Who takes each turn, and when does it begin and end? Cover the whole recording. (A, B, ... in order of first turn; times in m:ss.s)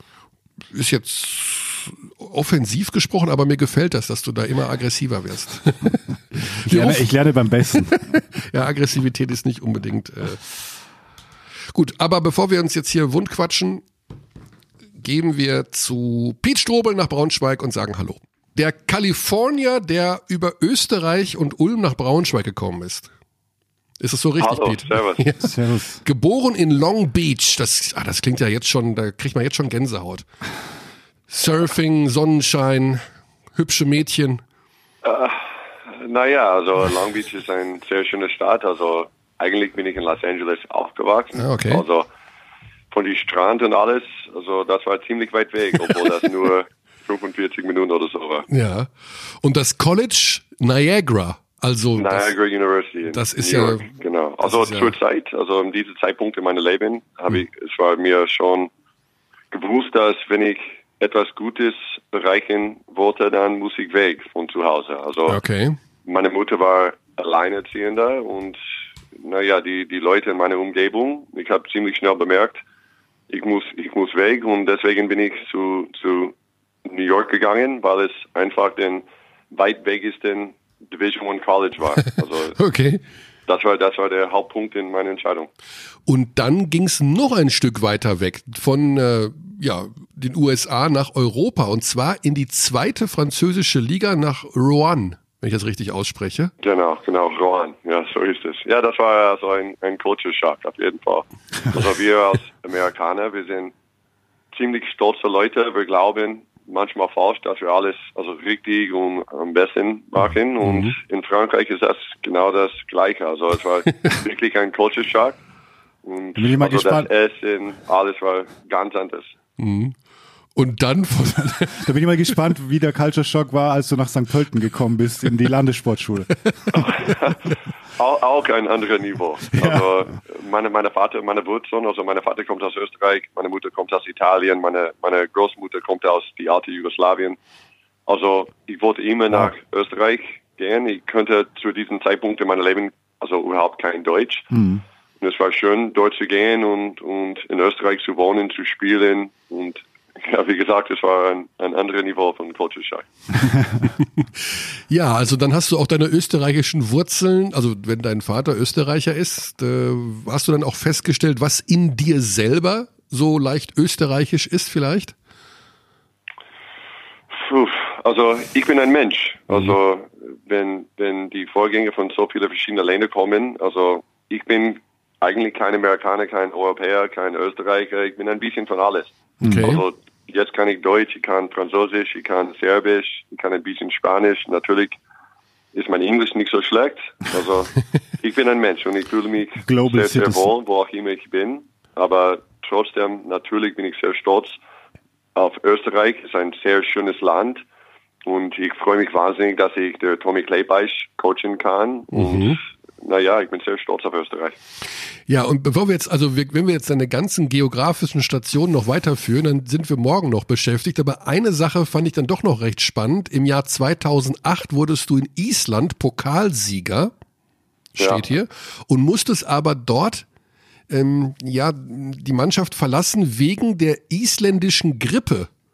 0:00.7-0:07.1 A
0:06.4-0:08.0 B
0:07.8-0:10.4 A
0:11.7-0:13.8 A
0:15.0-0:23.1 A
0:24.0-0:30.3 A
0:24.4-0:25.3 C
0:25.4-0:26.0 B
0:31.3-0:33.0 A
0:33.6-0:34.4 A
0:35.0-0:42.1 C
0:41.4-0:41.8 A
0:42.9-0:48.5 C
0:48.5-0:52.3 A
0:52.0-0:58.7 C
0:53.1-0:53.9 A
0:54.4-0:55.0 A
0:59.5-1:05.4 C
1:05.3-1:05.8 A
1:06.0-1:08.6 C
1:09.2-1:12.6 C
1:13.3-1:16.3 C
1:16.8-1:22.6 C
1:22.6-1:23.0 A
1:23.5-1:25.5 C
1:26.1-1:36.5 A
1:36.6-1:43.7 C
1:44.5-1:55.4 C
1:50.6-1:51.0 A
1:56.0-1:59.3 C
1:56.4-1:57.1 B
1:59.6-2:00.0 A
2:00.6-2:01.9 A
2:01.5-2:06.8 B
2:06.8-2:07.4 C
2:08.0-2:17.4 C
2:09.6-2:09.8 B
2:18.1-2:24.5 C
2:24.5-2:24.8 B
2:25.2-2:33.1 C
2:34.0-2:45.2 A
2:47.3-3:05.0 C
2:59.4-2:59.8 A
3:05.7-3:14.6 C
3:09.6-3:10.5 B
3:15.4-3:17.6 C
3:18.2-3:24.6 C
3:22.1-3:22.6 A
3:25.3-3:37.1 A
3:38.0-3:40.3 A
3:38.0-3:38.2 C
3:40.9-3:45.5 A